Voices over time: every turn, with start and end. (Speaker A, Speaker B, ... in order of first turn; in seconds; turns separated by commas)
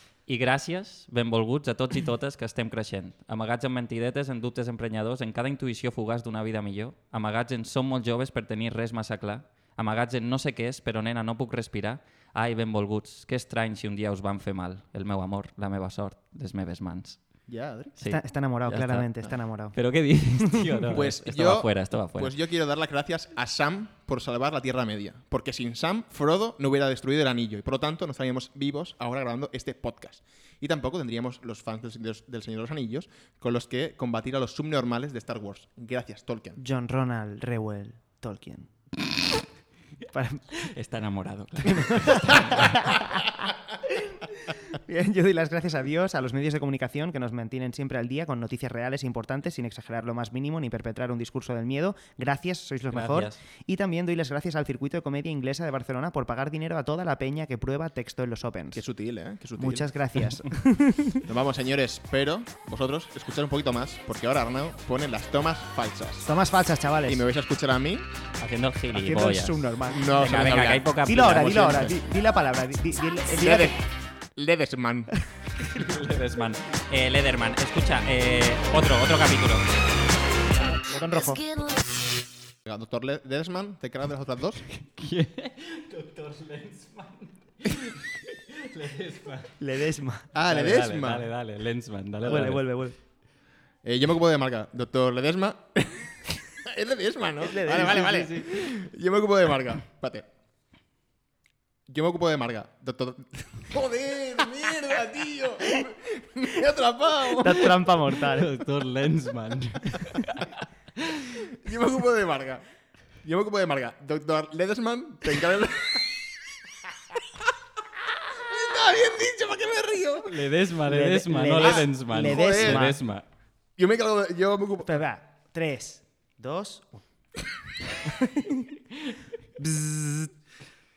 Speaker A: 0.3-17.2, Speaker B: 17.5-17.9, Speaker A: 18.0-22.3, Speaker C: 18.0-19.8, Speaker C: 20.4-20.9, Speaker B: 20.9-36.6, Speaker C: 36.6-38.7, Speaker C: 40.1-40.5, Speaker A: 40.6-43.0, Speaker C: 41.7-43.3, Speaker C: 43.9-58.9, Speaker A: 52.9-53.4, Speaker B: 58.7-59.9, Speaker C: 59.6-61.2, Speaker B: 61.3-66.3, Speaker C: 66.2-67.2, Speaker B: 67.1-68.1, Speaker A: 68.4-69.6, Speaker C: 68.9-70.2, Speaker B: 69.9-70.8, Speaker A: 70.2-72.0, Speaker C: 71.0-73.8, Speaker B: 73.4-73.8, Speaker B: 74.4-75.1, Speaker A: 75.6-79.7, Speaker C: 80.7-81.5, Speaker B: 82.7-84.7, Speaker A: 84.7-89.5, Speaker C: 89.6-90.3, Speaker B: 90.3-91.3, Speaker A: 90.5-92.7, Speaker C: 92.3-93.0, Speaker B: 93.8-100.3, Speaker C: 97.4-98.3, Speaker A: 97.8-98.8, Speaker B: 101.9-107.8, Speaker C: 107.4-108.5, Speaker A: 108.2-111.4, Speaker B: 111.6-112.6, Speaker B: 113.2-116.1, Speaker B: 118.4-120.3, Speaker A: 120.3-123.2, Speaker C: 120.8-123.0, Speaker B: 121.6-122.9, Speaker B: 123.8-124.9, Speaker C: 124.8-127.0, Speaker C: 128.1-128.8, Speaker C: 129.6-130.3